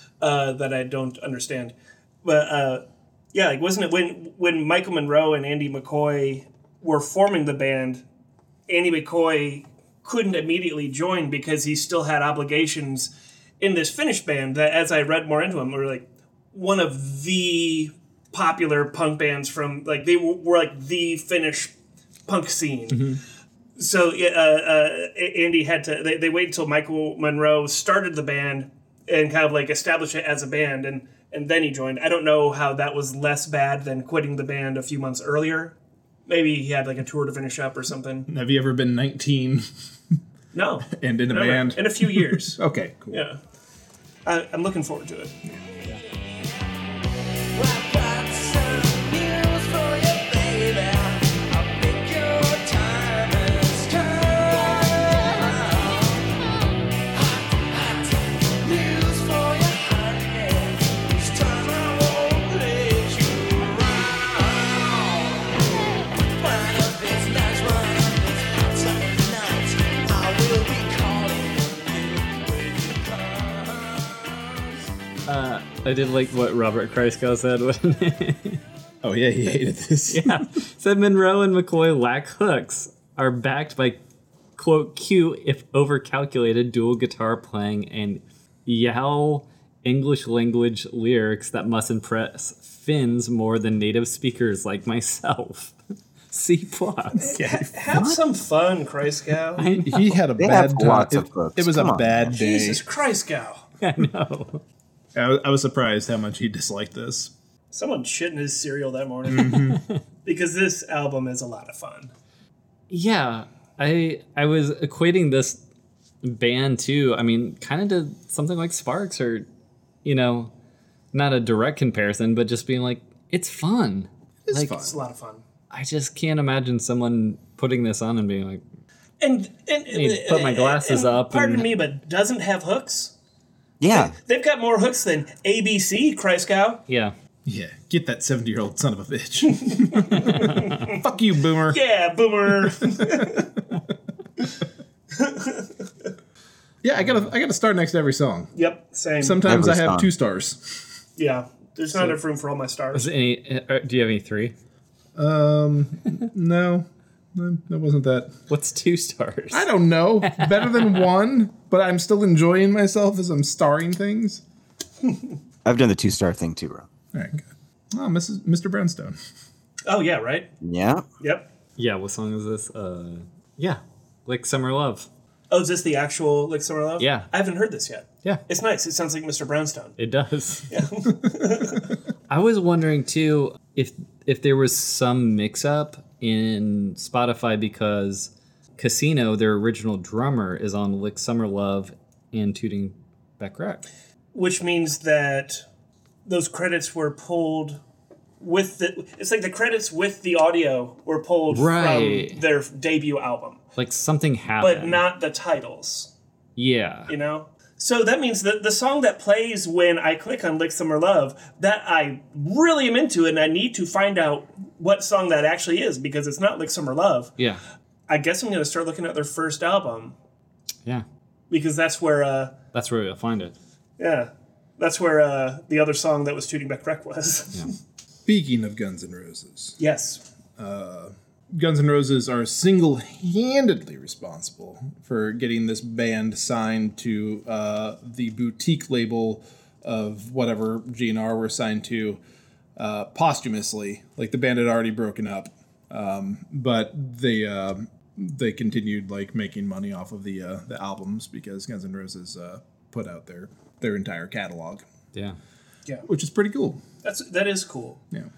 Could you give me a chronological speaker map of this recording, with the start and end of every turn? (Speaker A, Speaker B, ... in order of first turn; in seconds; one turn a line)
Speaker A: 0.2-8.0
Speaker A: 8.7-21.7
Speaker A: 22.3-23.2
Speaker B: 22.9-23.2
Speaker A: 23.8-35.8
Speaker A: 36.3-38.3
Speaker B: 38.3-39.7
Speaker A: 40.5-43.4
Speaker B: 40.9-43.2
Speaker A: 44.3-45.4
Speaker C: 45.9-46.5
Speaker C: 47.5-56.3
Speaker C: 57.1-74.5
Speaker D: 75.3-78.6
Speaker B: 79.0-80.5
Speaker D: 80.1-84.0
Speaker D: 84.6-95.8
Speaker D: 96.3-97.3
Speaker A: 97.2-99.7
Speaker B: 97.2-97.9
Speaker E: 97.9-98.2
Speaker D: 99.6-100.2
Speaker B: 99.7-102.8
Speaker E: 100.4-102.2
Speaker A: 102.3-103.7
Speaker D: 103.8-104.6
Speaker B: 105.2-107.3
Speaker A: 107.7-112.1
Speaker B: 109.3-109.8
Speaker D: 109.7-109.9
Speaker D: 112.9-115.6
Speaker D: 116.2-119.5
Speaker D: 120.0-120.5
Speaker D: 121.1-124.8
Speaker B: 124.5-124.9
Speaker A: 124.7-125.4
Speaker D: 125.7-128.6
Speaker A: 129.2-133.1
Speaker D: 129.9-131.7
Speaker E: 133.8-134.2
Speaker A: 133.9-136.8
Speaker D: 136.9-137.2
Speaker B: 137.4-141.8
Speaker A: 139.5-141.0
Speaker D: 140.1-140.8
Speaker A: 141.7-143.6
Speaker A: 145.2-145.7
Speaker B: 146.8-148.5
Speaker A: 148.6-149.5
Speaker B: 149.2-150.8
Speaker E: 149.4-150.1
Speaker A: 151.2-153.1
Speaker D: 152.9-154.5
Speaker B: 155.2-158.4
Speaker D: 158.5-159.7
Speaker B: 159.5-164.4
Speaker D: 160.2-161.1
Speaker E: 165.7-166.9
Speaker B: 167.1-169.2
Speaker A: 169.9-170.5
Speaker E: 170.6-171.0
Speaker A: 171.2-171.5
Speaker D: 171.8-175.1
Speaker A: 175.5-180.0
Speaker D: 177.0-177.3
Speaker D: 180.0-180.7
Speaker A: 180.7-181.9
Speaker D: 182.3-193.8
Speaker A: 194.3-195.7
Speaker A: 196.3-197.8
Speaker A: 198.4-203.6
Speaker D: 201.5-202.4
Speaker D: 203.8-205.0
Speaker A: 204.6-206.1
Speaker D: 206.6-207.1
Speaker A: 207.1-217.3
Speaker A: 218.1-220.2
Speaker A: 221.5-222.6
Speaker D: 222.7-223.6
Speaker A: 224.0-227.7
Speaker B: 228.3-229.8
Speaker A: 229.8-230.2
Speaker B: 230.6-242.2
Speaker B: 242.8-254.8
Speaker B: 256.1-256.8
Speaker A: 257.0-258.0